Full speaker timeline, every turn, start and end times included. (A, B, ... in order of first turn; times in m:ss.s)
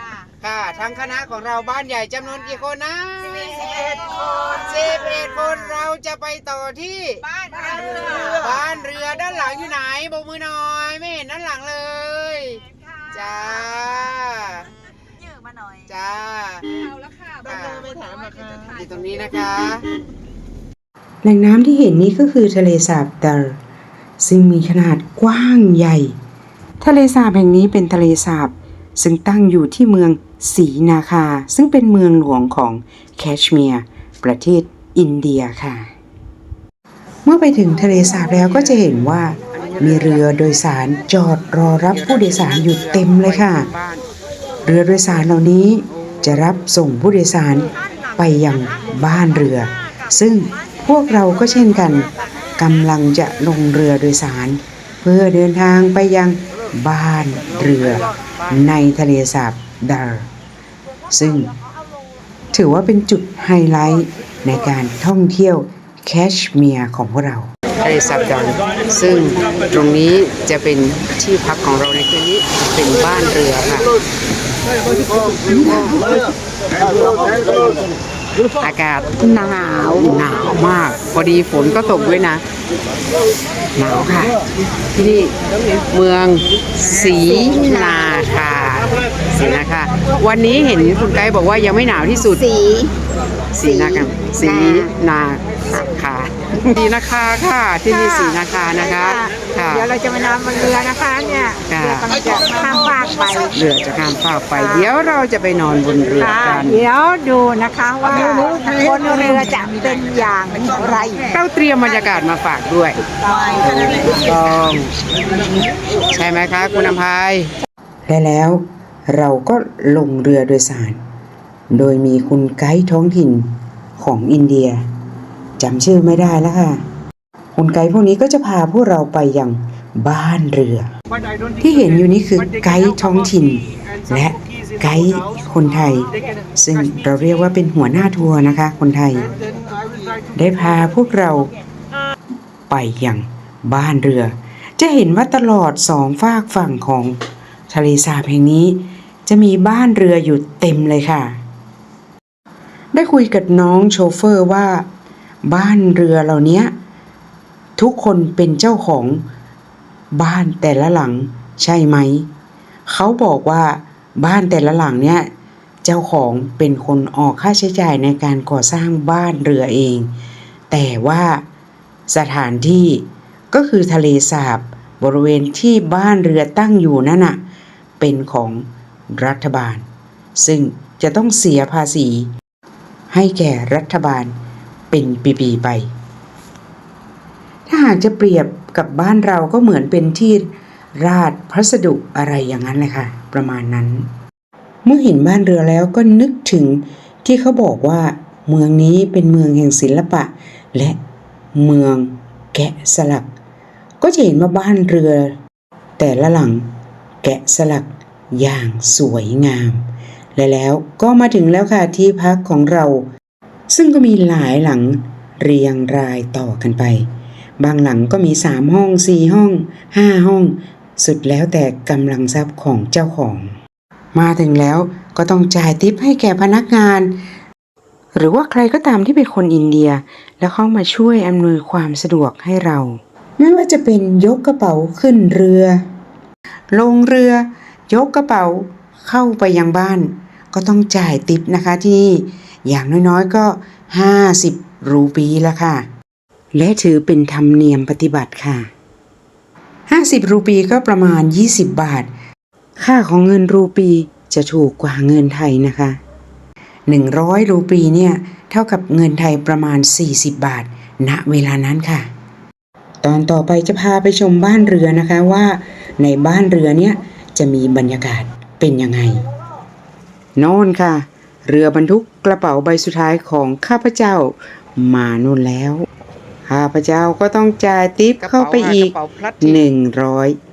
0:00.2-0:14.7 A
0:15.9-0:16.9 A
0:17.4-0:18.0 A
0:18.6-0:19.8 A
0:21.2-0:23.6 B
0:24.2-0:26.2 B
0:26.8-0:35.9 B
0:37.2-0:43.7 B
0:41.9-0:44.0 A
0:44.6-1:00.3 B
1:01.1-1:01.5 B
1:02.5-1:07.5 B
1:07.8-1:13.9 A
1:18.6-1:19.1 A
1:19.2-1:20.0 C
1:20.0-1:22.4 A
1:23.8-1:24.4 A
1:25.0-1:25.3 A
1:25.9-1:32.4 A
1:27.4-1:28.0 C
1:32.4-1:32.9 C
1:33.5-1:39.9 A
1:34.6-1:34.9 C
1:39.7-1:43.5 C
1:41.7-1:42.1 A
1:43.5-1:46.9 A
1:46.2-1:51.2 C
1:51.2-1:53.0 A
1:53.6-1:54.9 A
1:56.1-1:57.5 A
1:58.1-2:01.0 B
2:01.7-2:04.8 B
2:05.6-2:06.8 B
2:07.5-2:10.9 B
2:11.6-2:19.3 B
2:20.3-2:21.5 B
2:22.7-2:27.2 B
2:27.7-2:31.4 B
2:32.9-2:34.8 B
2:35.4-2:36.7 B
2:37.8-2:39.2 B
2:40.1-2:42.3 B
2:42.9-2:45.3 B
2:45.8-2:50.1 B
2:50.7-2:51.4 B
2:52.1-2:57.4 B
2:58.0-2:59.8 B
3:00.4-3:02.3 B
3:03.1-3:04.3 B
3:04.9-3:05.9 B
3:07.7-3:14.1 B
3:14.8-3:21.0 B
3:21.5-3:23.3 B
3:24.0-3:25.3 B
3:26.0-3:26.7 B
3:27.2-3:29.8 B
3:30.4-3:33.1 B
3:33.7-3:37.1 B
3:37.6-3:43.5 B
3:44.1-3:47.1 B
3:48.1-3:55.8 B
3:56.7-4:05.8 B
4:06.5-4:08.7 B
4:09.9-4:12.1 B
4:12.8-4:16.0 B
4:16.9-4:22.1 B
4:23.0-4:29.2 B
4:30.4-4:35.9 B
4:36.5-4:40.4 B
4:38.2-4:39.6 A